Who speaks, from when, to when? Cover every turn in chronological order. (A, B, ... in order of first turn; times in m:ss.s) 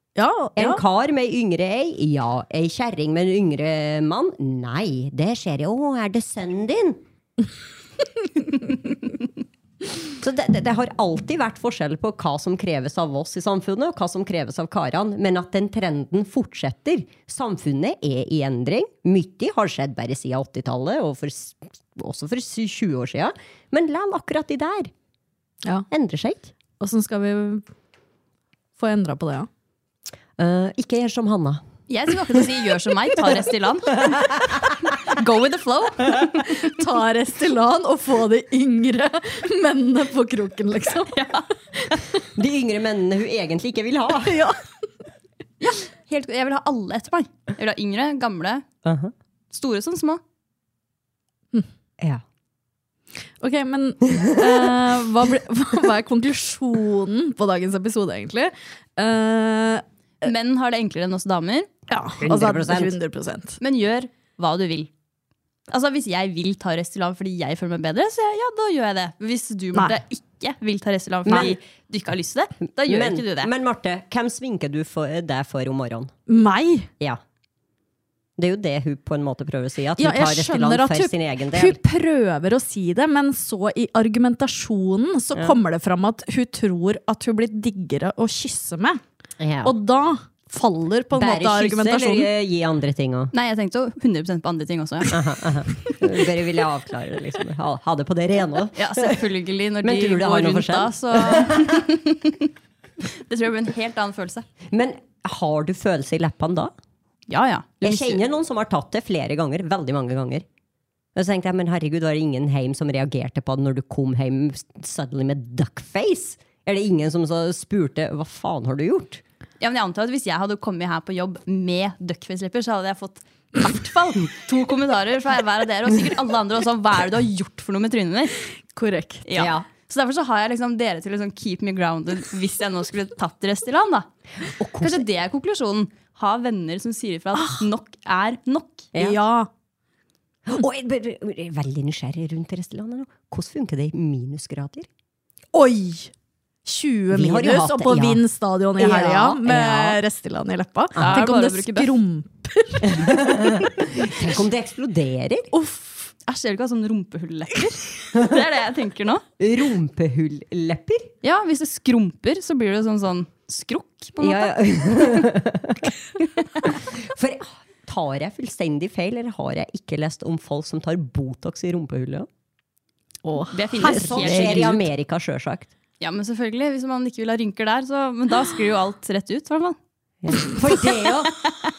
0:00.2-0:00.8 A
0:00.6-0:07.0 B
0:10.2-0:24.9 B
0:25.9-0:26.5 B
0:26.8-0:27.6 A
0:28.8-0:29.5 A
0:30.4-0:31.6 B
0:31.9-0:34.2 C
0:34.0-0:34.6 B
0:35.0-0:36.7 C
0:36.6-0:41.1 A
0:41.1-0:41.4 C
0:42.4-0:44.4 B
0:44.2-0:44.6 A
0:45.6-0:48.6 C
0:48.8-0:49.1 B
0:49.5-0:50.2 C
0:53.4-0:59.8 A
1:00.2-1:01.7 C
1:01.9-1:03.6 A
1:02.2-1:03.0 B
1:03.6-1:04.9 C
1:05.7-1:13.5 C
1:09.8-1:10.0 A
1:11.2-1:11.6 B
1:12.8-1:16.1 B
1:16.3-1:16.9 A
1:18.4-1:21.8 B
1:20.0-1:29.0 A
1:29.4-1:29.7 B
1:29.6-1:32.3 A
1:31.1-1:33.3 B
1:33.3-1:36.0 C
1:35.1-1:39.2 B
1:38.8-1:42.5 C
1:39.8-1:41.8 B
1:43.0-1:44.5 C
1:44.7-1:46.7 B
1:47.3-1:48.2 C
1:47.8-1:50.4 B
1:51.2-1:59.2 B
1:59.6-2:08.4 C
2:08.8-2:09.2 A
2:09.3-2:14.1 C
2:09.4-2:09.7 B
2:14.5-2:15.0 B
2:14.8-2:18.9 C
2:17.4-2:17.6 A
2:19.0-2:19.5 A
2:20.5-2:24.9 B
2:25.5-2:26.1 A
2:26.6-2:33.4 A
2:27.1-2:28.2 B
2:28.8-2:30.0 B
2:31.0-2:32.0 C
2:32.8-2:35.5 B
2:35.5-2:36.1 A
2:36.3-2:39.2 C
2:38.1-2:38.4 B
2:39.4-2:41.1 B
2:41.2-2:45.2 C
2:44.2-2:45.9 B
2:46.8-2:52.3 B
2:53.2-2:54.8 A
2:53.5-2:54.7 C
2:53.8-2:55.7 B
2:56.0-2:59.8 C
3:00.2-3:01.4 B